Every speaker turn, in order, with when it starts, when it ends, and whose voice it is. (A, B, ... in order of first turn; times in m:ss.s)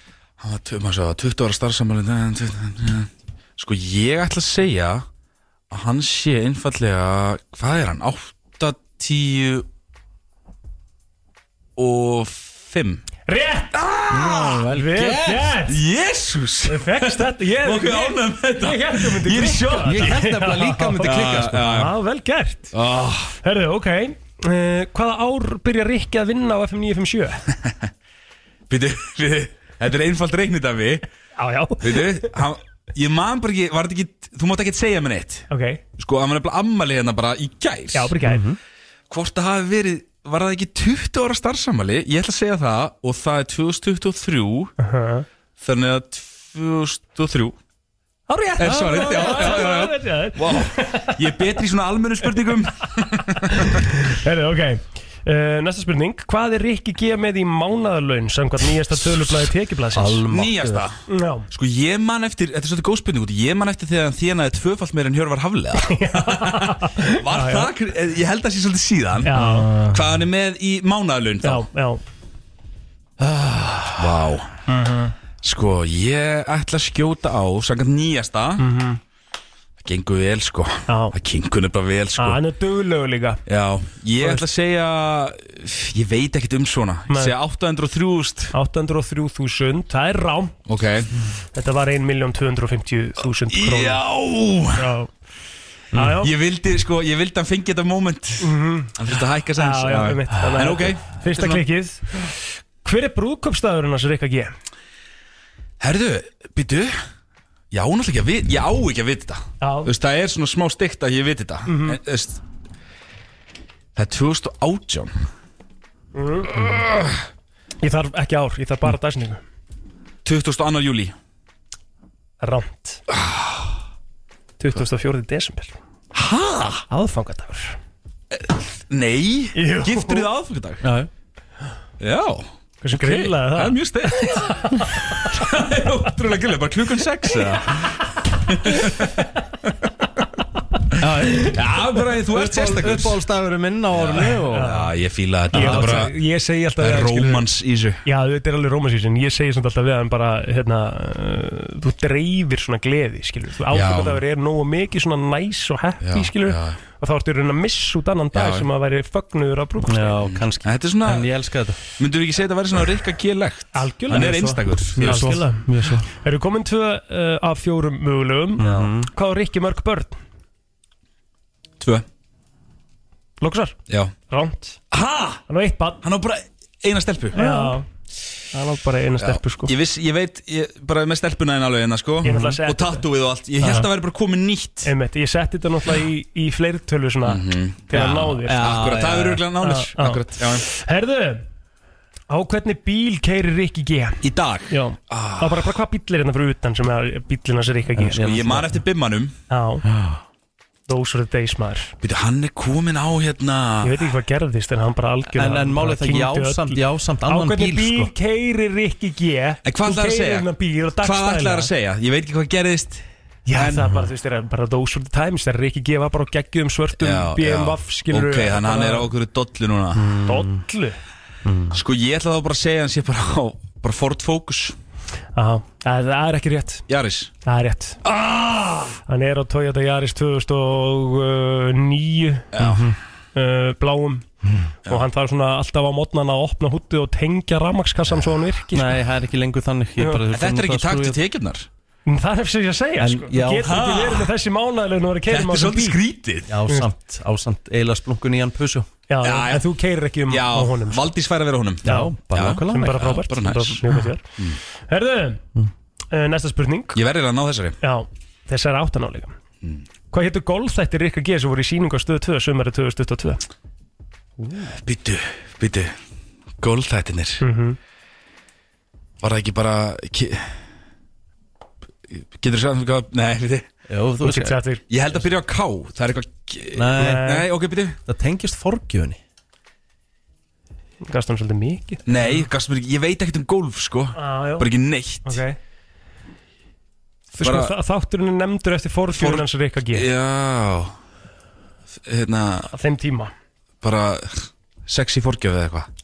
0:00.4-0:05.1 A
0:05.7-0:09.7 A
0:11.8-0:13.0 A
0:13.3-0:13.8 B
0:13.7-0:20.2 A
0:14.1-0:14.7 C
0:14.7-0:15.8 B
0:16.7-0:22.8 B
0:19.8-0:21.8 C
0:21.0-0:21.9 A
0:22.7-0:23.4 A
0:23.4-0:27.5 B
0:28.7-0:31.0 A
0:31.4-0:32.3 B
0:31.8-0:38.2 A
0:35.5-0:35.8 B
0:37.9-0:38.4 B
0:38.2-0:38.6 C
0:39.1-0:44.7 A
0:44.8-0:45.3 B
0:45.6-0:47.6 A
0:48.3-0:51.3 B
0:48.6-0:53.8 A
0:48.6-0:49.4 C
0:53.5-1:00.3 B
0:59.9-1:00.9 C
1:00.3-1:11.6 A
1:01.1-1:01.5 B
1:05.8-1:07.7 B
1:09.2-1:09.7 B
1:09.3-1:10.1 C
1:11.4-1:12.0 B
1:13.2-1:14.0 C
1:13.9-1:14.5 A
1:15.4-1:18.6 A
1:18.6-1:19.0 B
1:19.8-1:22.4 A
1:20.9-1:21.2 B
1:22.2-1:23.4 B
1:23.5-1:28.5 A
1:24.2-1:24.4 B
1:27.1-1:27.4 B
1:28.5-1:30.6 B
1:30.7-1:31.1 A
1:31.5-1:34.0 B
1:33.5-1:34.9 A
1:34.8-1:35.1 B
1:35.9-1:36.2 C
1:35.9-1:36.3 B
1:36.2-1:41.6 A
1:38.4-1:39.0 B
1:39.6-1:42.2 B
1:42.8-1:44.5 B
1:45.8-1:47.0 A
1:47.7-1:52.4 A
1:49.6-1:49.9 B
1:51.7-1:52.0 B
1:54.0-1:55.1 A
1:56.2-1:56.7 B
1:56.6-1:57.1 A
1:57.8-1:59.4 B
2:00.2-2:01.1 A
2:02.4-2:03.0 B
2:03.2-2:03.7 A
2:04.6-2:05.8 B
2:06.1-2:06.8 A
2:06.9-2:07.8 B
2:08.3-2:10.9 A
2:09.6-2:10.3 B
2:10.8-2:11.1 C
2:12.0-2:19.1 A
2:12.8-2:15.1 B
2:21.0-2:24.8 C
2:21.3-2:23.2 A
2:23.9-2:26.2 A
2:24.3-2:24.9 B
2:25.5-2:26.1 C
2:25.5-2:27.5 B
2:26.8-2:28.0 A
2:28.0-2:40.3 B
2:33.7-2:34.2 A
2:36.0-2:36.8 A
2:38.3-2:38.7 A
2:39.8-2:41.8 C
2:40.2-2:41.3 A
2:42.0-2:45.4 A
2:43.7-2:45.7 B
2:44.1-2:46.1 C
2:46.2-2:50.2 B
2:48.6-2:49.1 C
2:51.8-2:52.1 A
2:53.4-2:54.8 B
2:54.9-2:55.4 A
2:55.5-2:56.0 B
2:56.0-2:57.4 A
2:57.3-2:57.9 B
2:57.4-2:57.8 C
2:58.5-2:59.7 B
2:59.2-3:04.9 A
3:02.2-3:03.1 B
3:02.2-3:02.6 C
3:03.6-3:03.9 B
3:03.6-3:03.9 C
3:04.8-3:08.7 B
3:07.2-3:10.6 A
3:07.9-3:09.4 C
3:09.6-3:11.4 B
3:12.3-3:18.5 B
3:14.2-3:15.7 A
3:18.0-3:18.8 C
3:18.2-3:19.4 A
3:19.5-3:19.8 B
3:19.9-3:20.2 C
3:20.9-3:21.9 B
3:22.0-3:24.0 A
3:23.8-3:31.7 B
3:25.3-3:28.1 C
3:29.6-3:33.0 A
3:33.5-3:39.1 B
3:33.5-3:33.9 A
3:33.8-3:34.1 C
3:37.0-3:40.0 A
3:40.0-3:40.6 C
3:40.2-3:41.0 B
3:41.4-3:41.8 C
3:41.7-3:44.8 A
3:45.4-3:46.8 B
3:46.9-3:47.3 A
3:47.4-3:48.0 B
3:48.1-3:48.9 A
3:49.0-3:52.5 B
3:52.5-3:52.9 A
3:52.6-3:53.0 C
3:53.4-3:54.3 B
3:54.9-3:59.0 B
3:58.7-4:01.2 C
4:00.2-4:01.7 A
4:02.1-4:06.0 B
4:03.0-4:03.7 C
4:03.6-4:04.3 A
4:05.3-4:06.5 A
4:06.5-4:08.9 C
4:09.1-4:11.1 B
4:09.2-4:09.7 A
4:10.3-4:14.6 A
4:11.8-4:13.1 C
4:11.8-4:14.3 B
4:14.8-4:15.4 B
4:16.1-4:17.0 B
4:16.9-4:17.8 A
4:17.8-4:19.3 B
4:20.1-4:23.4 B
4:24.4-4:24.8 C
4:24.8-4:25.9 A
4:26.6-4:27.4 A
4:27.4-4:27.8 B
4:29.2-4:30.5 A
4:32.1-4:33.7 A
4:33.9-4:34.6 C
4:34.2-4:34.8 B
4:34.9-4:38.0 A
4:36.7-4:37.3 C
4:36.9-4:37.5 B
4:38.0-4:39.2 C
4:41.0-4:42.4 B
4:42.1-4:45.4 A
4:44.2-4:44.7 B
4:45.2-4:45.6 B
4:47.4-4:50.1 B
4:47.4-4:47.7 A
4:49.1-4:50.9 A
4:52.0-4:52.7 A
4:52.7-4:53.3 B
4:53.8-4:55.9 A